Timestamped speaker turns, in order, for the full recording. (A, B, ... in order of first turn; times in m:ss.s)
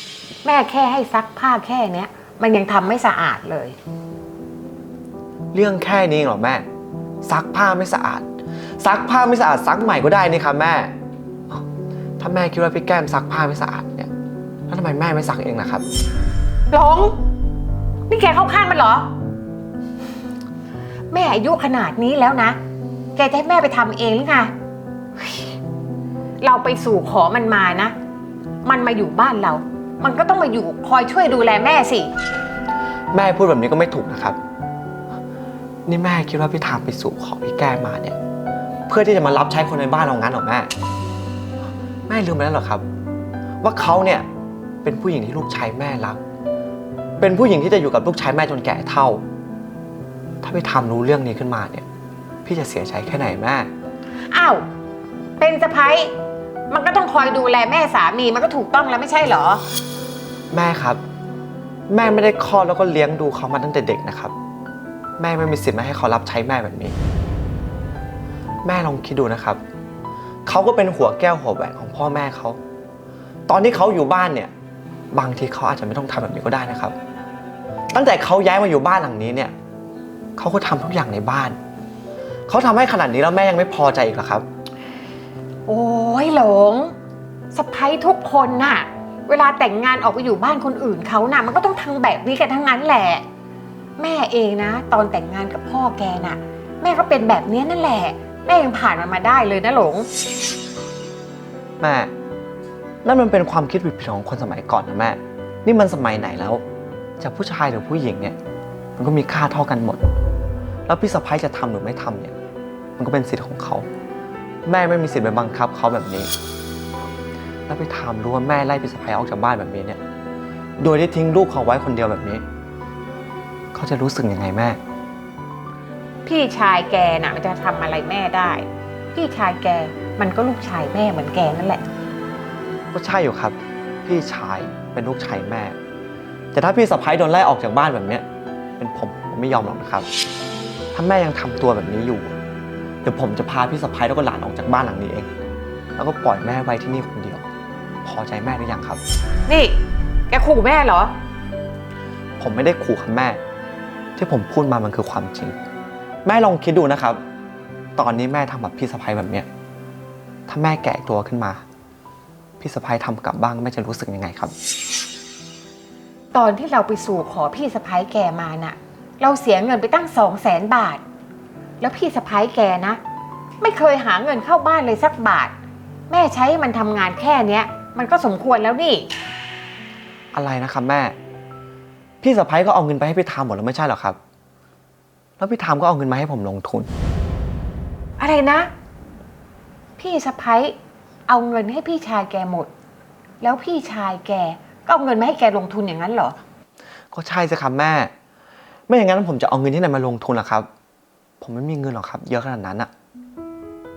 0:00.4-0:03.8 A
0:05.5-0:06.6 B
0:07.2-0:08.2 B
0:08.8-0:10.9 B
0:12.2-0:14.1 B
0:14.7-0:15.8 B
0:16.7-0:17.1 A
0:18.1-0:19.1 A
0:21.1-0:22.6 A
0:23.2-0:24.5 A
0:25.2-0:25.5 A
0:26.4-0:27.9 A
0:28.6-0:32.1 A
0:33.1-0:34.4 B
0:35.9-0:38.2 B
0:38.9-0:40.7 B
0:42.1-0:42.8 B
0:43.6-0:44.2 B
0:44.8-0:46.2 B
0:47.2-0:49.2 B
0:50.4-0:51.8 B
0:52.4-0:53.7 B
0:54.3-0:54.6 A
0:55.4-0:56.1 A
0:56.7-0:59.6 A
1:00.5-1:01.0 B
1:01.9-1:04.3 B
1:05.2-1:07.0 B
1:08.6-1:09.6 B
1:10.4-1:12.6 B
1:13.5-1:14.5 B
1:15.1-1:16.9 B
1:17.9-1:19.5 B
1:20.4-1:21.6 B
1:22.5-1:24.4 B
1:25.7-1:26.9 A
1:27.5-1:33.2 A
1:34.0-1:40.1 A
1:41.8-1:42.1 B
1:43.0-1:46.6 B
1:47.2-1:48.4 B
1:49.0-1:50.0 B
1:50.9-1:52.4 B
1:53.0-1:53.9 B
1:54.6-1:56.3 B
1:57.7-2:00.0 B
2:00.8-2:02.4 B
2:03.7-2:04.8 B
2:06.2-2:11.8 A
2:12.9-2:15.8 B
2:16.5-2:18.2 B
2:18.8-2:20.1 B
2:20.9-2:22.4 B
2:23.0-2:25.3 B
2:26.0-2:27.4 B
2:28.0-2:29.0 B
2:29.5-2:29.8 A
2:30.3-2:31.1 A
2:32.4-2:33.4 B
2:34.2-2:35.6 B
2:36.2-2:37.2 B
2:38.0-2:39.5 B
2:40.5-2:41.6 B
2:42.6-2:44.5 B
2:46.3-2:51.0 A
2:51.8-2:53.0 A
2:53.6-2:55.5 A
2:56.1-2:59.1 A
3:00.3-3:01.1 B
3:02.2-3:04.2 B
3:05.4-3:06.9 B
3:08.2-3:08.7 A
3:10.0-3:10.8 A
3:11.3-3:12.7 A
3:13.4-3:16.4 A
3:17.1-3:18.1 B
3:18.9-3:20.7 B
3:21.4-3:22.9 B